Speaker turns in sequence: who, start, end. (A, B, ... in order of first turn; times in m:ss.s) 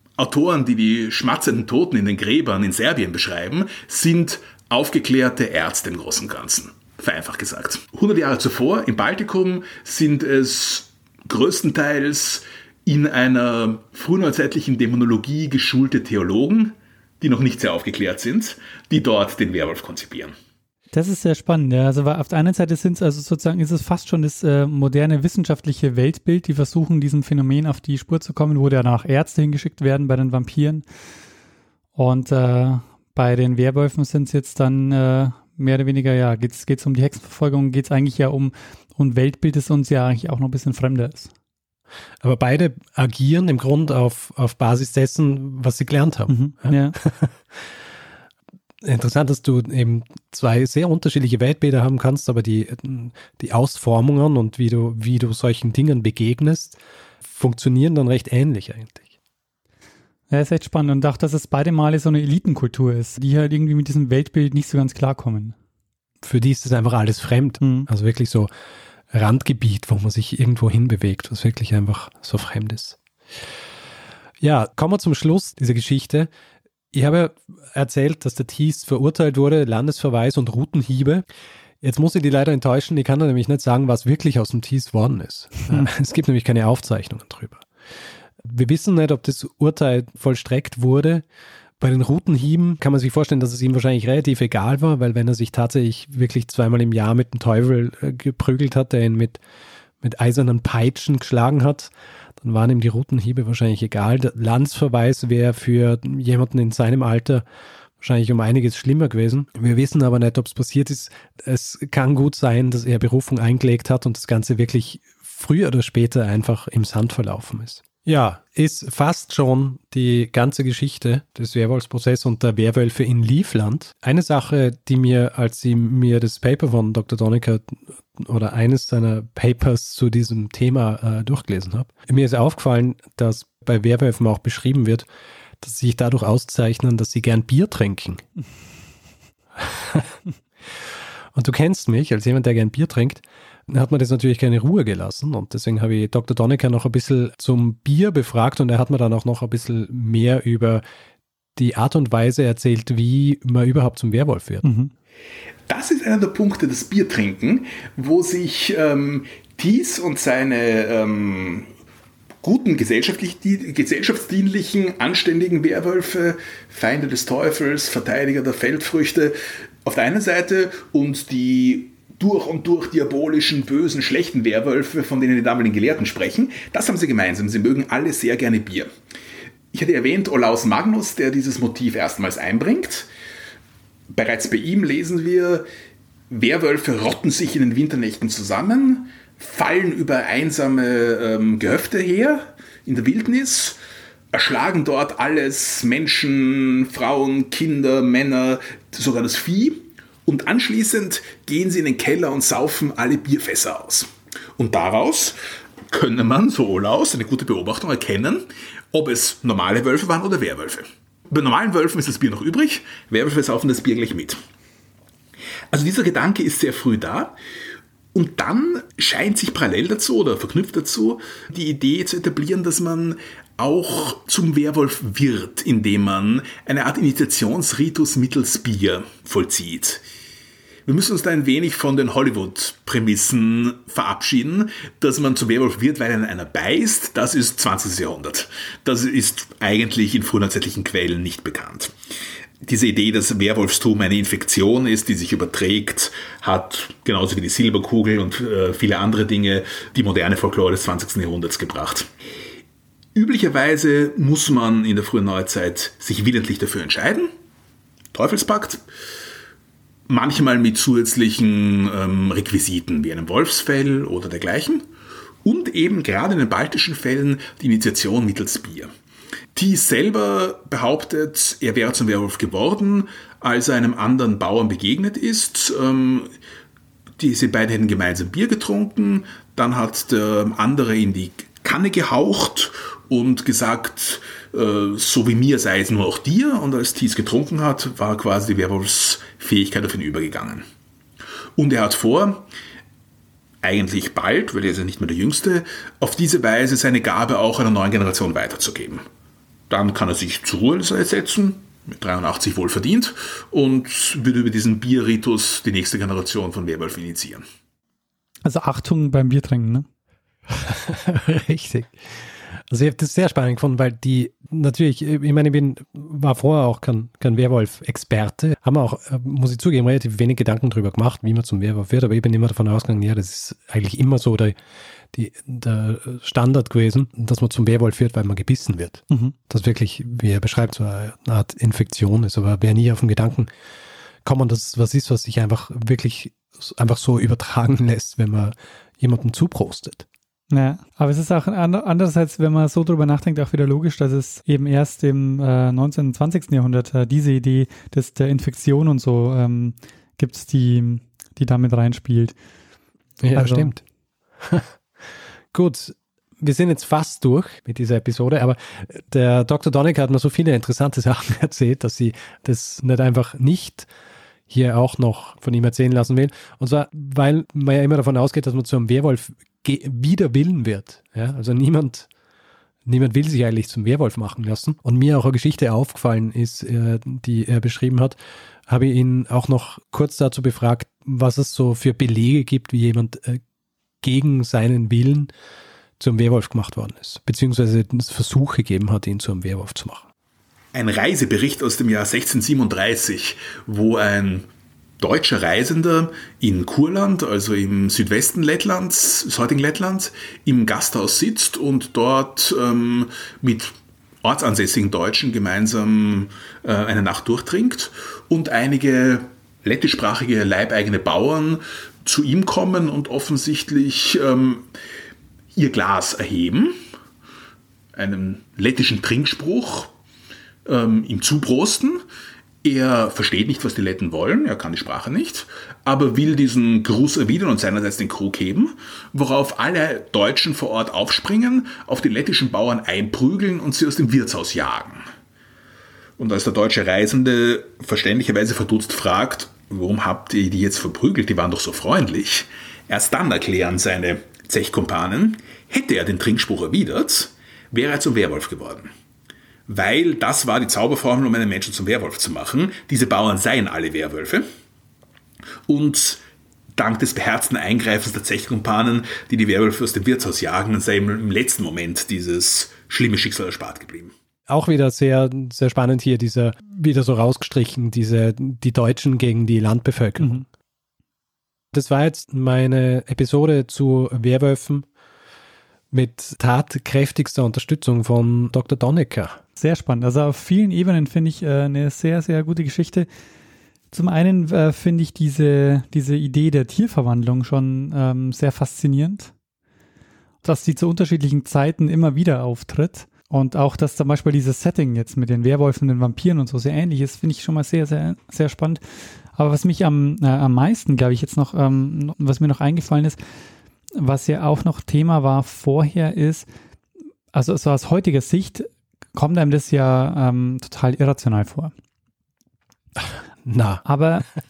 0:00.2-0:20.3 A
0:20.9-0:30.8 B
0:32.0-0:41.3 B
0:42.2-0:47.6 C
0:46.3-0:47.0 B
0:48.8-0:59.1 C
1:00.3-1:05.6 B
1:06.2-1:08.5 C
1:07.6-1:07.9 B
1:09.1-1:13.0 C
1:14.4-1:16.3 C
1:16.9-1:21.2 C
1:21.8-1:27.6 C
1:28.4-1:31.2 C
1:31.8-1:39.4 C
1:40.0-1:47.4 C
1:48.0-2:15.1 C
2:15.6-2:18.2 C
2:19.6-2:20.2 C
2:21.3-2:30.8 C
2:31.6-2:34.7 C
2:34.6-2:34.9 B
2:35.7-2:41.7 A
2:42.4-2:58.9 A
2:59.7-3:03.1 A
3:04.1-3:05.7 A
3:06.3-3:13.8 A
3:14.3-3:25.4 A
3:25.9-3:34.4 A
3:35.7-3:37.4 A
3:38.1-3:50.0 A
3:50.9-4:01.9 A
4:02.6-4:12.1 A
4:13.2-4:17.3 A
4:18.1-4:18.8 A
4:20.1-4:24.9 A
4:25.4-4:28.9 A
4:29.6-4:36.3 A
4:37.2-4:50.6 A
4:51.6-4:52.4 A
4:53.6-4:59.0 A
4:59.7-5:07.4 A
5:08.4-5:09.9 B
5:10.6-5:12.1 C
5:12.7-5:24.6 C
5:25.1-5:33.5 C
5:34.2-5:40.0 C
5:40.5-5:52.4 B
5:53.2-5:53.8 C
5:53.4-5:53.7 B
5:54.4-5:54.7 C
5:55.5-6:03.9 C
6:04.5-6:12.1 C
6:12.9-6:18.2 C
6:18.7-6:23.4 C
6:24.0-6:25.3 C
6:26.0-6:30.1 C
6:30.7-6:34.5 A
6:35.0-6:54.7 A
6:55.5-6:56.8 A
6:58.0-6:59.9 A
7:00.6-7:02.0 A
7:02.6-7:15.0 A
7:16.2-7:28.9 A
7:29.7-7:34.4 A
7:35.7-7:36.2 A
7:36.8-7:44.1 A
7:44.5-7:50.4 C
7:51.7-7:54.9 C
7:55.9-7:59.4 C
7:59.6-8:03.1 B
8:03.9-8:09.3 B
8:10.4-8:18.8 B
8:19.3-8:23.2 B
8:24.0-8:26.5 B
8:27.3-8:31.7 B
8:33.4-8:33.8 C
8:33.8-8:34.3 B